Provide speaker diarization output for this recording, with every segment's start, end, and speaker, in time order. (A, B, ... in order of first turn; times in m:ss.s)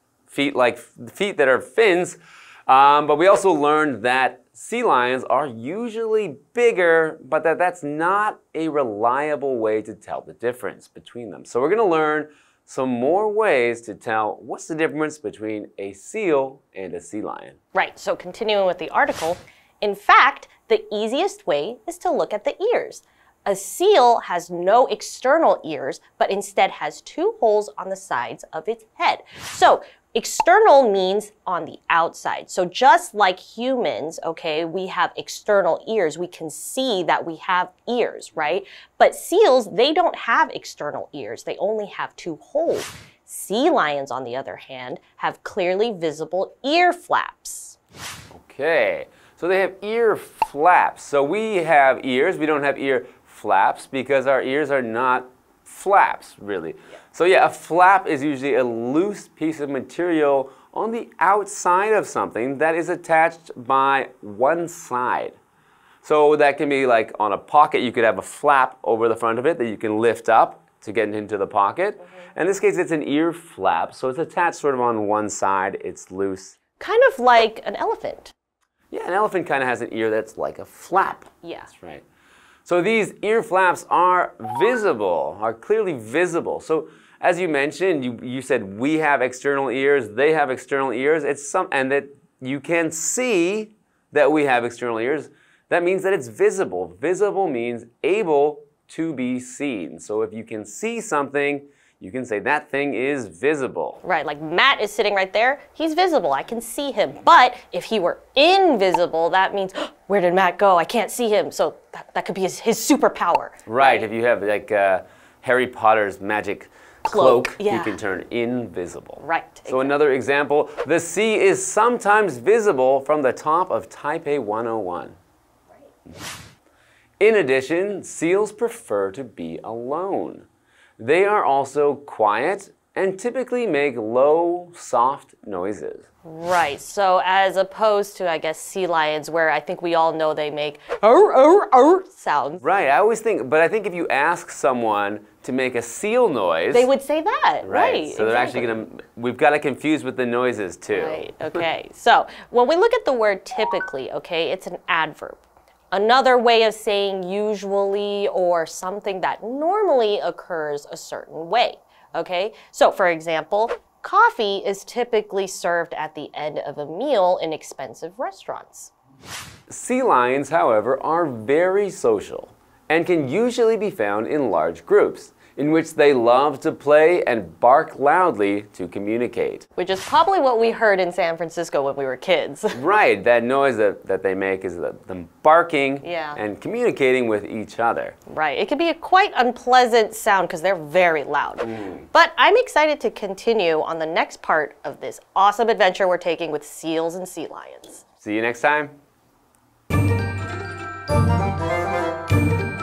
0:00.3-0:17.6 A
0:17.7-0:47.8 B
0:48.3-1:05.4 A
1:06.0-1:16.6 A
1:16.8-1:18.3 B
1:18.9-1:22.0 A
1:21.4-1:21.7 B
1:22.6-1:44.0 A
1:44.0-1:54.1 B
1:53.6-2:05.2 A
1:57.0-1:58.0 B
1:59.2-2:00.0 B
2:07.2-2:10.4 A
2:11.0-2:16.0 A
2:16.2-2:22.6 B
2:22.6-2:26.9 A
2:26.7-2:28.7 B
2:27.6-2:31.6 A
2:30.9-2:35.4 B
2:35.9-2:48.9 B
2:49.7-2:59.6 A
2:59.8-3:02.8 B
3:02.7-3:08.2 A
3:06.0-3:06.4 B
3:08.3-3:18.0 B
3:18.2-3:19.0 A